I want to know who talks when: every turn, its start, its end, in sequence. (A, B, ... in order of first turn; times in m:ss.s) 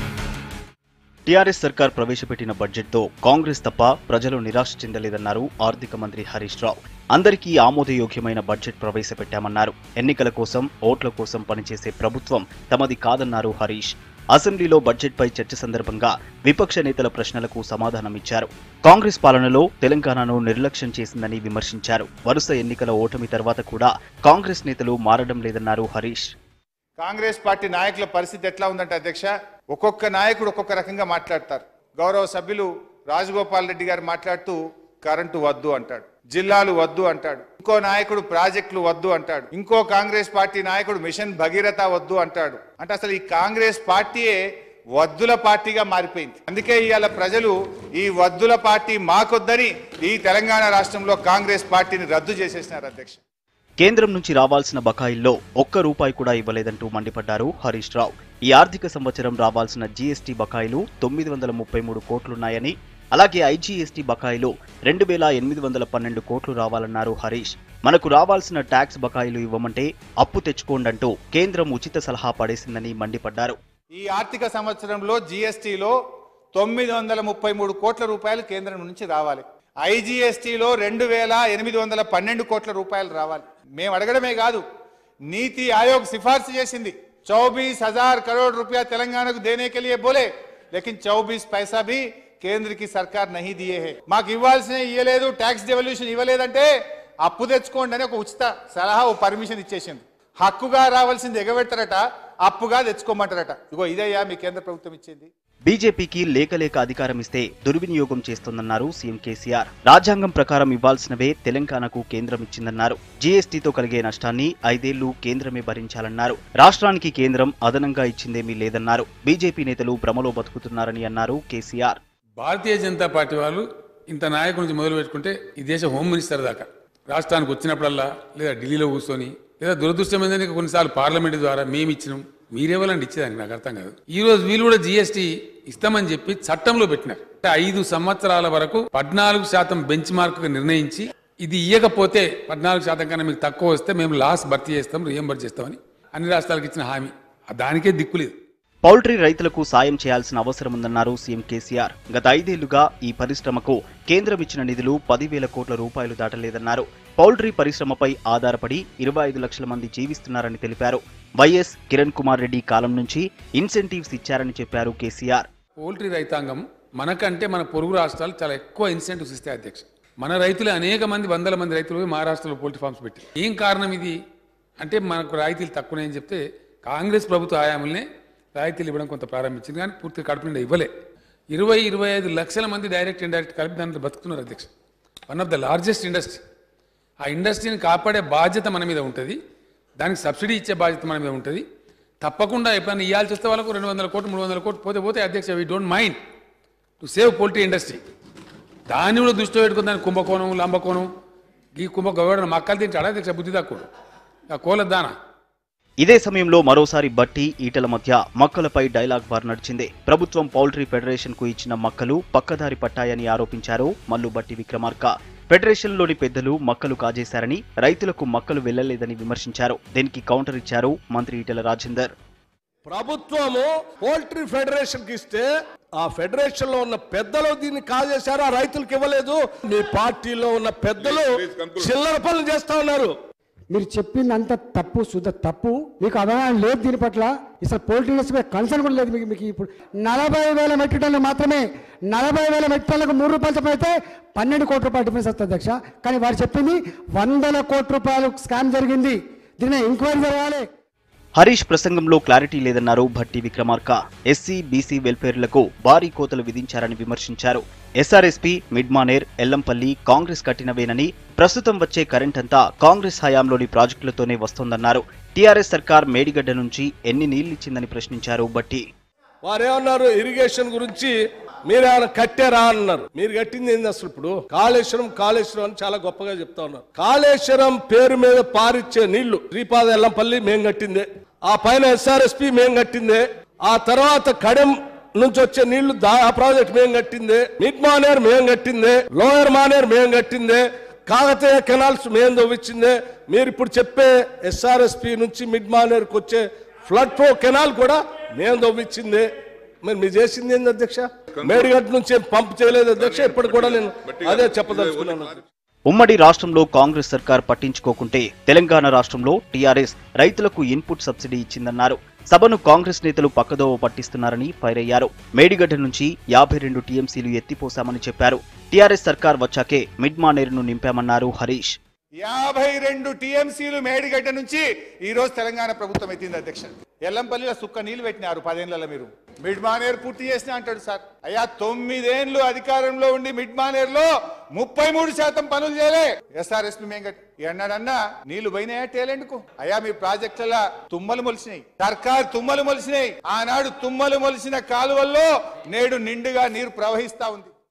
0:01.3-0:26.3 A
0:27.0-0:44.4 B
0:45.0-0:53.2 B
0:53.8-1:13.6 A
1:13.9-1:16.0 B
1:16.5-1:24.6 B
1:25.3-1:36.7 B
1:37.2-1:45.3 B
1:45.7-2:02.0 A
2:02.4-2:28.4 C
2:28.8-2:45.5 A
2:45.8-2:54.1 C
2:54.8-3:00.9 C
3:01.5-3:04.7 C
3:05.3-3:06.4 C
3:07.2-3:09.4 C
3:10.0-3:11.6 C
3:12.2-3:16.2 C
3:17.0-3:18.0 C
3:18.9-3:21.1 C
3:21.8-3:23.9 C
3:24.5-3:25.1 C
3:26.0-3:42.1 A
3:42.8-3:53.2 D
3:53.7-4:10.6 E
4:11.4-4:28.8 A
4:29.4-4:31.1 D
4:31.7-4:59.3 D
4:59.8-5:05.4 D
5:05.9-5:21.8 A
5:22.2-5:47.5 B